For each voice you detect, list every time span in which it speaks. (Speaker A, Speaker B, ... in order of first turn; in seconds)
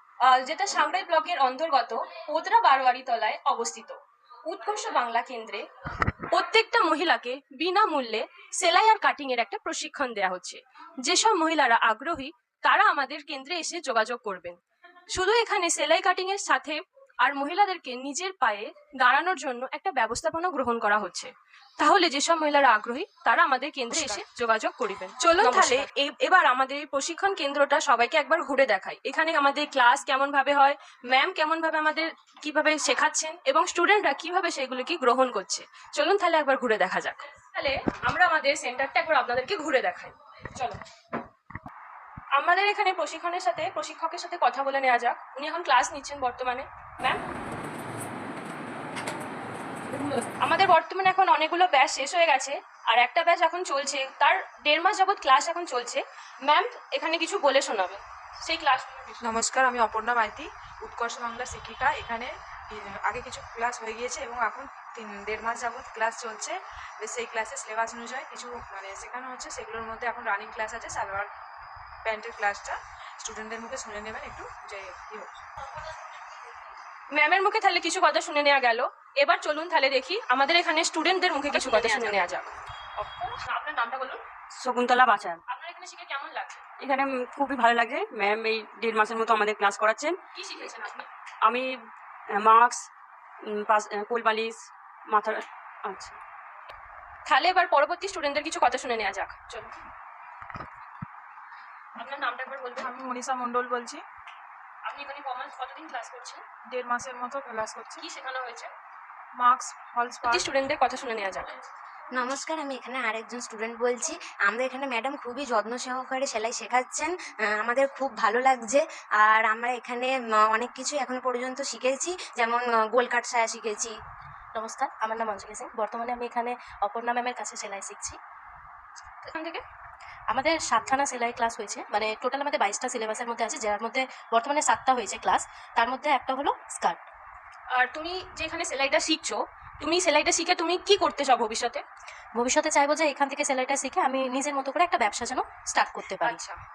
Speaker A: 0.2-5.7, 6.3-14.6, 15.2-40.8, 42.4-47.2, 50.4-59.2, 77.1-84.2, 85.5-86.6, 90.3-91.1, 97.3-99.7, 102.0-103.0, 104.9-106.4, 108.0-108.7, 110.2-111.6, 129.2-129.6, 137.7-141.8, 146.2-146.6
Speaker B: 23.9-24.2, 25.4-25.9, 59.2-71.3, 72.0-75.4, 102.8-104.0, 106.7-108.0, 109.4-110.4
Speaker C: 81.5-82.1, 84.6-85.4, 86.8-90.2, 91.5-91.7, 92.3-92.9, 93.5-96.2
Speaker D: 112.1-123.9
Speaker E: 124.5-128.2, 130.3-137.1, 142.4-146.4